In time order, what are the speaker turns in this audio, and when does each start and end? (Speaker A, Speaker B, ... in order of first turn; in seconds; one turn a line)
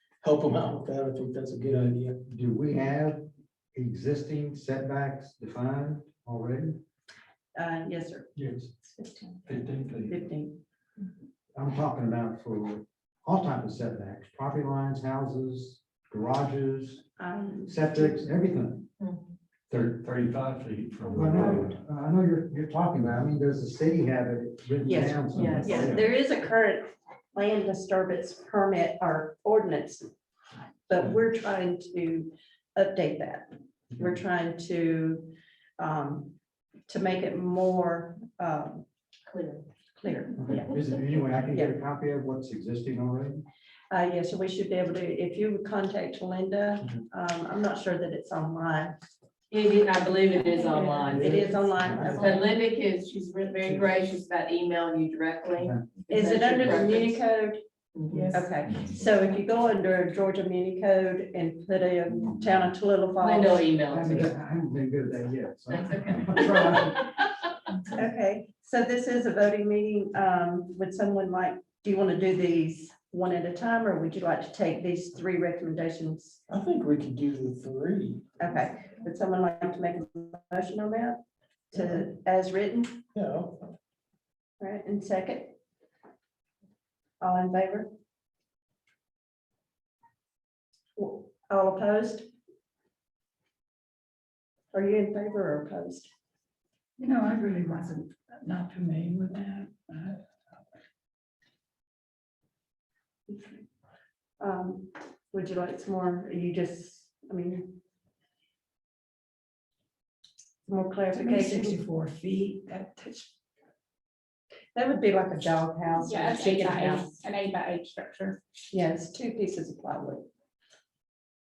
Speaker A: 0.2-2.2
Speaker B: 2.2-6.8
Speaker C: 7.5-8.3
Speaker D: 8.4-8.7
Speaker C: 8.8-9.4
Speaker D: 9.4-10.2
Speaker C: 10.1-10.6
Speaker B: 11.5-17.0
Speaker C: 17.2-18.2
Speaker B: 17.7-18.8
Speaker D: 19.7-21.8
Speaker B: 21.1-26.1
Speaker C: 24.8-30.1
Speaker E: 25.4-25.8
Speaker C: 30.9-36.3
Speaker C: 36.9-38.8
Speaker E: 39.3-39.6
Speaker C: 40.0-40.8
Speaker B: 40.4-43.4
Speaker C: 41.5-41.7
Speaker C: 43.9-49.0
Speaker E: 49.5-51.4
Speaker F: 50.3-52.4
Speaker B: 51.1-52.3
Speaker C: 51.2-52.4
Speaker E: 52.2-57.2
Speaker C: 56.1-57.6
Speaker E: 57.9-58.2
Speaker G: 58.1-58.5
Speaker C: 58.3-63.7
Speaker E: 63.2-64.3
Speaker B: 63.9-67.1
Speaker E: 65.7-66.8
Speaker C: 67.9-76.4
Speaker A: 76.5-78.3
Speaker C: 78.4-81.2
Speaker C: 81.7-83.0
Speaker A: 81.7-82.0
Speaker A: 83.1-83.7
Speaker C: 84.6-85.5
Speaker C: 87.2-87.9
Speaker C: 91.0-92.3
Speaker C: 94.7-96.1
Speaker G: 97.0-100.2
Speaker C: 103.3-103.6
Speaker C: 104.4-107.8
Speaker C: 110.7-111.8
Speaker G: 111.1-113.3
Speaker C: 114.8-117.1
Speaker F: 116.0-118.4
Speaker C: 118.7-120.2